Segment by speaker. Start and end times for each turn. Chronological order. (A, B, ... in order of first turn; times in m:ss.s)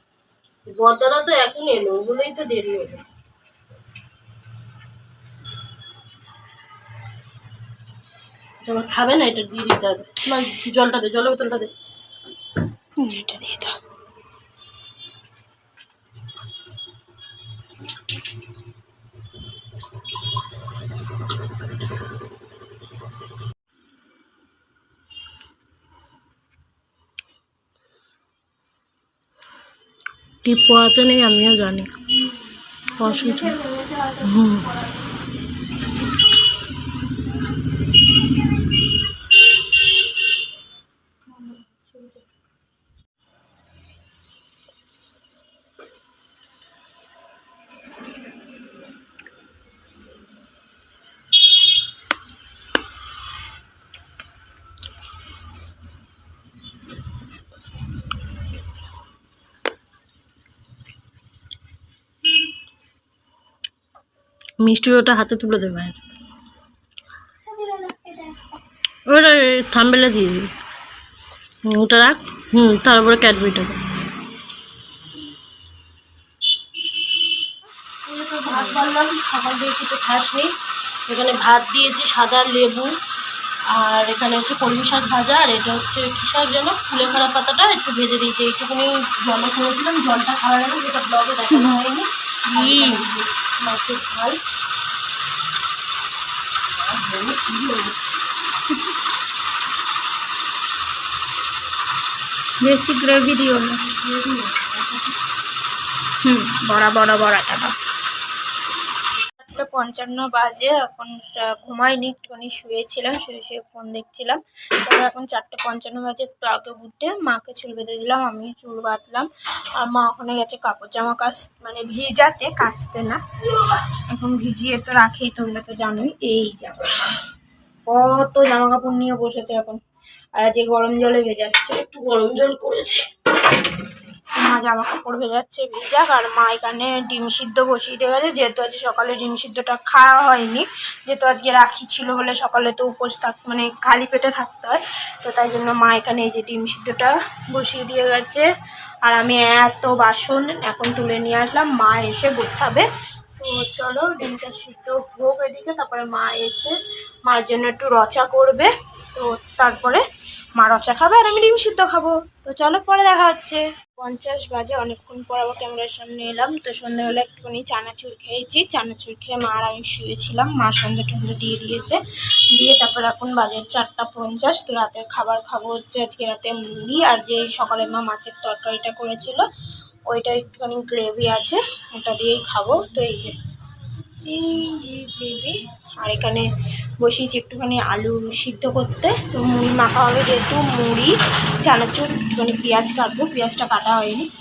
0:00.6-0:03.0 A
0:08.6-0:11.7 A
0:13.0-0:13.8 B
0:30.4-0:31.9 A
0:32.2-0:35.2 B
0:33.0-0:33.6 A
0:34.2-0:34.6 A
0:41.3-0:42.2 B
1:04.6-1:06.0 A
1:07.5-1:08.4 B
1:09.1-1:10.5 A
1:11.6-1:13.8 A
1:18.0-1:20.5 A
1:18.4-1:18.8 B
1:21.1-1:22.9 A
1:23.7-1:34.4 A
1:31.5-1:31.8 B
1:32.5-1:33.2 B
1:36.7-1:38.2 A
1:42.6-1:43.8 B
1:43.8-1:45.1 A
1:46.2-1:47.7 B
1:49.4-1:59.3 B
1:59.8-2:06.9 B
2:07.9-2:09.8 B
2:10.4-2:11.8 B
2:11.8-2:13.1 A
2:14.4-2:28.4 B
2:29.0-2:40.0 B
2:40.6-2:52.0 B
2:52.5-2:59.4 B
3:00.1-3:03.3 B
3:04.3-3:06.4 B
3:07.0-3:11.1 B
3:11.6-3:14.2 B